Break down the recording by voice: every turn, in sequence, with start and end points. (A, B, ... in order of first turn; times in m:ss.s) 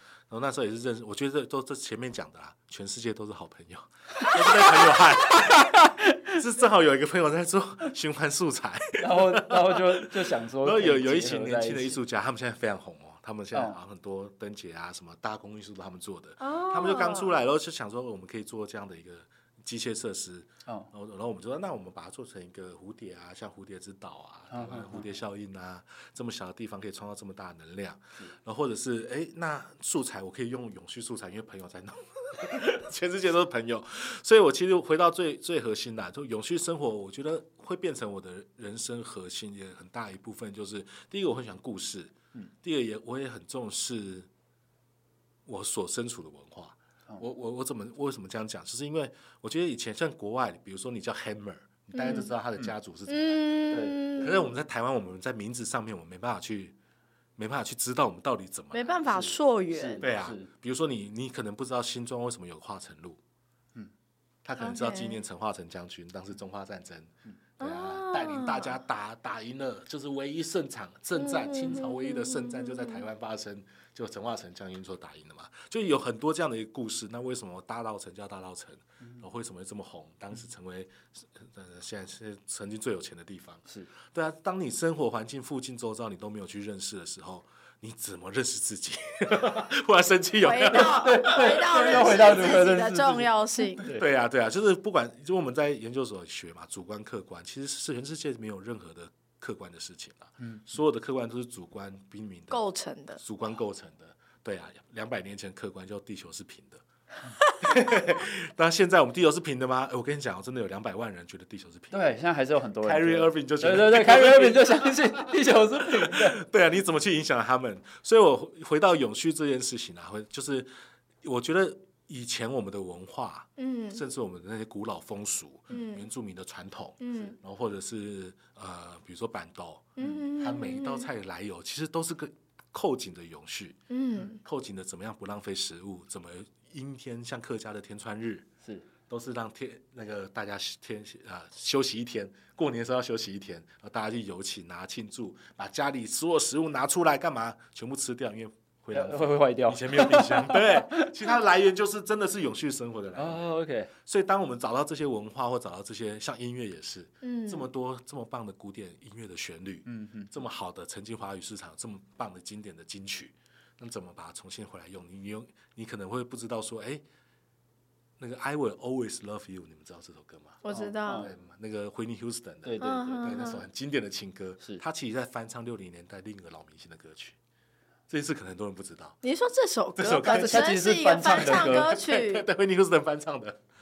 0:00.3-0:44.3 A
0:09.0-0:12.0 B
0:16.4-0:17.4 C
0:24.5-0:25.1 B
0:45.4-0:53.6 A
0:51.9-0:52.3 C
0:53.1-0:54.5 C
0:53.7-0:54.1 B
0:54.1-0:56.8 A
0:57.4-0:59.0 A
0:58.7-1:00.1 C
0:59.1-1:00.5 B
1:00.0-1:03.2 A
1:04.4-1:32.5 A
1:04.6-1:05.2 C
1:07.6-1:08.8 C
1:11.2-1:13.0 C
1:30.4-1:33.8 C
1:30.7-1:34.0 B
1:33.8-1:42.6 A
1:42.5-1:43.2 C
1:43.2-1:46.8 A
1:47.6-1:52.0 A
1:51.9-1:56.4 B
1:52.8-2:00.7 A
2:01.2-2:13.8 A
2:03.6-2:04.0 C
2:05.7-2:06.0 C
2:07.0-2:07.4 C
2:10.0-2:11.1 C
2:13.9-2:14.4 C
2:14.3-2:18.5 A
2:19.1-2:47.0 A
2:28.9-2:31.1 B
2:33.2-2:33.9 B
2:37.2-2:37.7 C
2:39.8-2:40.3 B
2:48.2-2:50.6 A
2:50.6-2:51.3 C
2:50.7-2:51.3 B
2:51.2-2:57.4 A
2:52.6-2:53.5 B
2:52.8-2:53.6 C
2:58.1-2:59.2 A
2:59.2-3:02.4 C
3:00.0-3:03.6 A
3:00.2-3:01.9 B